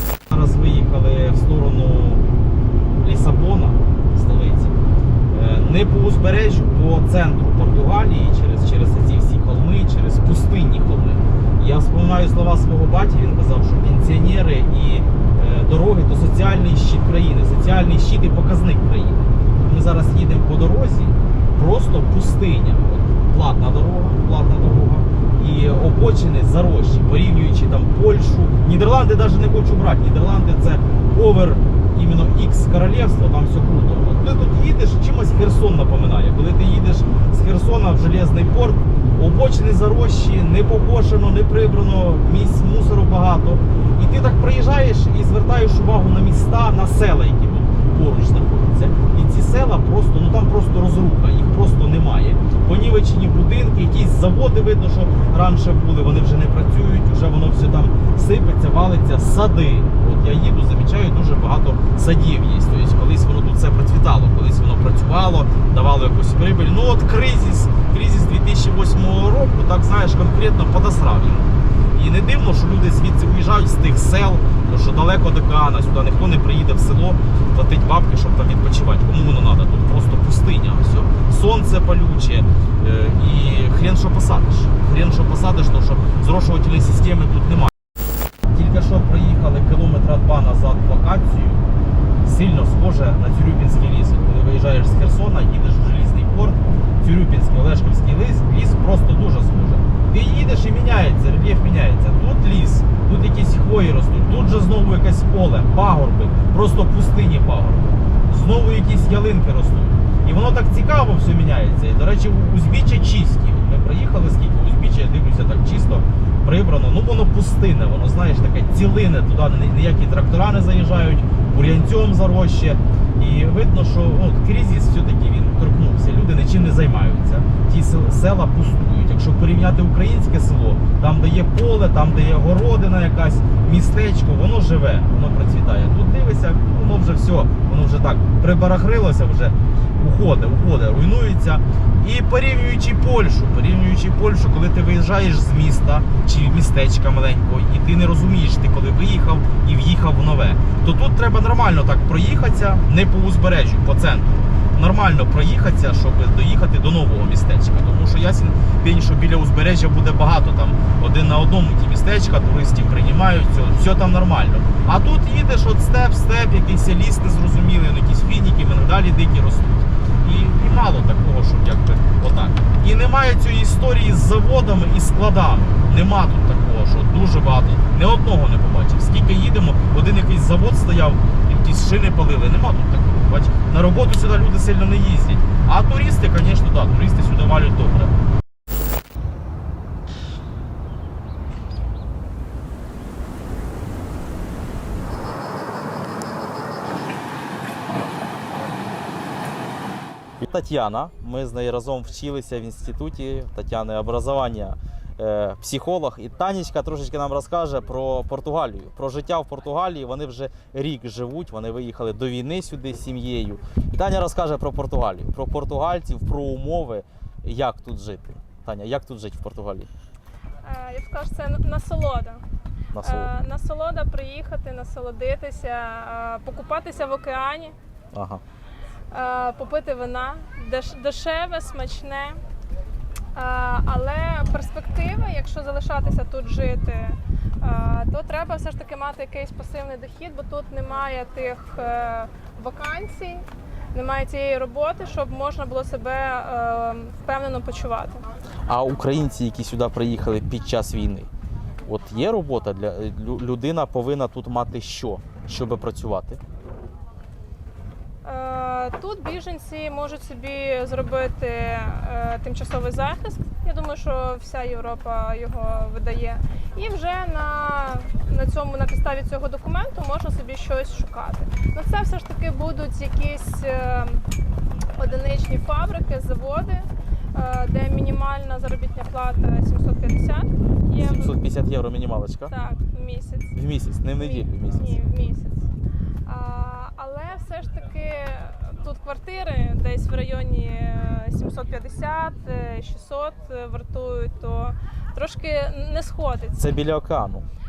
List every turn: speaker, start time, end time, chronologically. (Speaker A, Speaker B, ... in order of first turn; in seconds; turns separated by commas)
Speaker A: 0.3-2.2, Speaker A: 3.0-4.8, Speaker A: 5.3-87.7, Speaker A: 88.5-91.6, Speaker A: 92.2-188.1, Speaker A: 200.4-219.9, Speaker B: 220.6-222.4, Speaker A: 222.9-223.3, Speaker B: 223.0-227.8, Speaker A: 228.1-228.4, Speaker B: 229.1-232.4, Speaker B: 233.3-248.2, Speaker A: 248.7-251.3, Speaker A: 251.9-256.4, Speaker B: 258.2-274.3, Speaker B: 275.0-281.4, Speaker A: 280.9-282.5, Speaker B: 282.5-283.6, Speaker A: 283.6-285.0, Speaker B: 284.1-285.7, Speaker B: 286.3-296.7, Speaker A: 296.6-297.4